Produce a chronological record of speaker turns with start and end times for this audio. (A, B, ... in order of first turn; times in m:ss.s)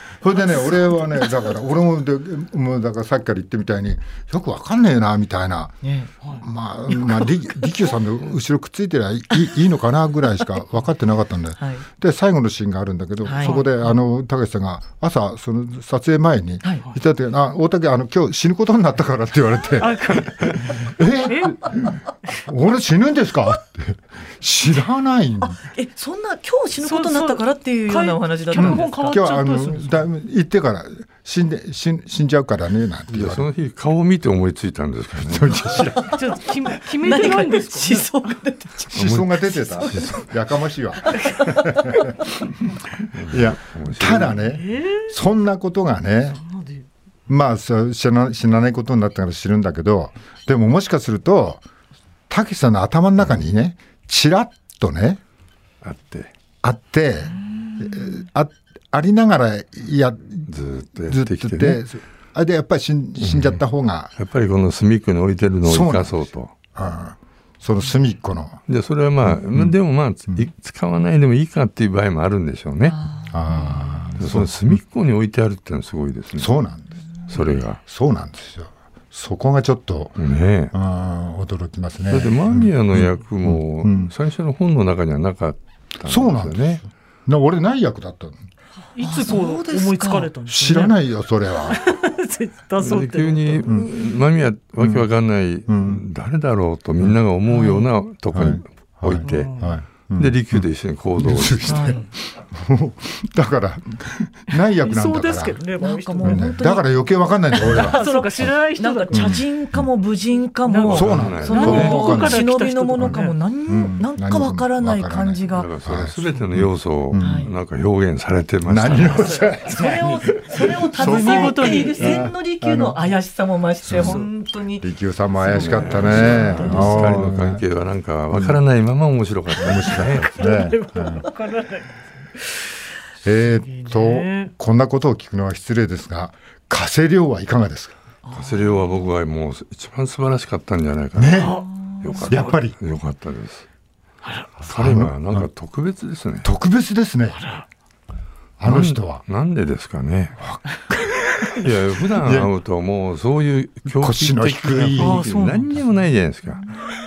0:00.2-0:05.8 A
0:05.8-0:06.1 B
0:06.4-0:25.6 A
0:13.2-0:13.7 B
0:13.4-0:13.7 C
0:19.8-0:21.7 C
0:25.5-0:29.2 B
0:26.8-0:30.0 C
0:28.5-0:33.5 A
0:33.1-0:35.8 D
0:35.2-0:36.2 A
0:35.9-0:36.2 B
0:36.1-0:38.1 C
0:36.7-0:40.1 B
0:38.9-0:42.2 A
0:38.9-0:40.3 D
0:41.1-0:42.1 B
0:43.0-0:46.4 A
0:43.1-0:44.4 D
0:44.5-0:45.1 C
0:46.4-0:46.8 C
0:47.3-0:51.6 A
0:52.3-0:55.2 A
0:55.8-0:56.3 D
0:56.6-1:04.1 A
0:57.6-0:58.1 B
1:00.5-1:01.8 D
1:03.2-1:03.6 D
1:04.2-1:06.5 D
1:05.6-1:08.6 A
1:08.7-1:13.0 D
1:09.3-1:09.7 A
1:12.9-1:14.1 B
1:13.3-1:14.8 A
1:14.2-1:16.5 D
1:16.4-1:20.2 A
1:17.3-1:17.8 D
1:20.2-1:20.7 D
1:20.7-1:24.1 A
1:22.1-1:26.8 D
1:26.0-1:28.4 A
1:28.9-1:31.0 C
1:29.0-1:30.3 B
1:30.4-1:31.9 A
1:31.6-1:33.8 C
1:32.8-1:41.9 D
1:34.8-1:35.1 A
1:35.7-1:36.0 A
1:37.5-1:37.9 B
1:38.3-1:45.6 A
1:39.2-1:39.8 C
1:41.6-1:42.0 B
1:44.8-1:46.5 C
1:45.8-1:55.7 B
1:46.2-1:48.5 A
1:47.7-1:49.4 C
1:49.1-1:49.9 A
1:50.6-1:53.4 C
1:50.9-1:52.4 A
1:50.9-1:52.2 D
1:53.0-1:57.5 A
1:55.5-1:59.4 D
1:57.2-1:57.5 B
1:58.6-2:03.0 A
1:59.0-2:00.0 C
1:59.6-2:04.8 B
2:01.0-2:02.3 C
2:03.9-2:04.2 A
2:03.9-2:04.3 C
2:04.8-2:07.6 A
2:05.4-2:06.7 B
2:05.5-2:10.4 D
2:06.0-2:07.2 C
2:08.3-2:08.6 A
2:09.6-2:11.3 A
2:10.3-2:12.8 C
2:13.2-2:18.0 A
2:13.4-2:14.5 C
2:18.3-2:23.6 D
2:21.1-2:21.6 A
2:21.3-2:22.4 C
2:21.8-2:22.2 B
2:22.3-2:22.8 A
2:24.2-2:24.6 C
2:24.6-2:25.5 A
2:24.6-2:26.5 D
2:26.4-2:27.4 A
2:27.4-2:27.6 C
2:28.6-2:29.2 A
2:28.6-2:30.4 D
2:30.4-2:31.6 A
2:31.6-2:36.6 D
2:32.2-2:32.5 A
2:33.9-2:35.3 A
2:35.0-2:35.8 C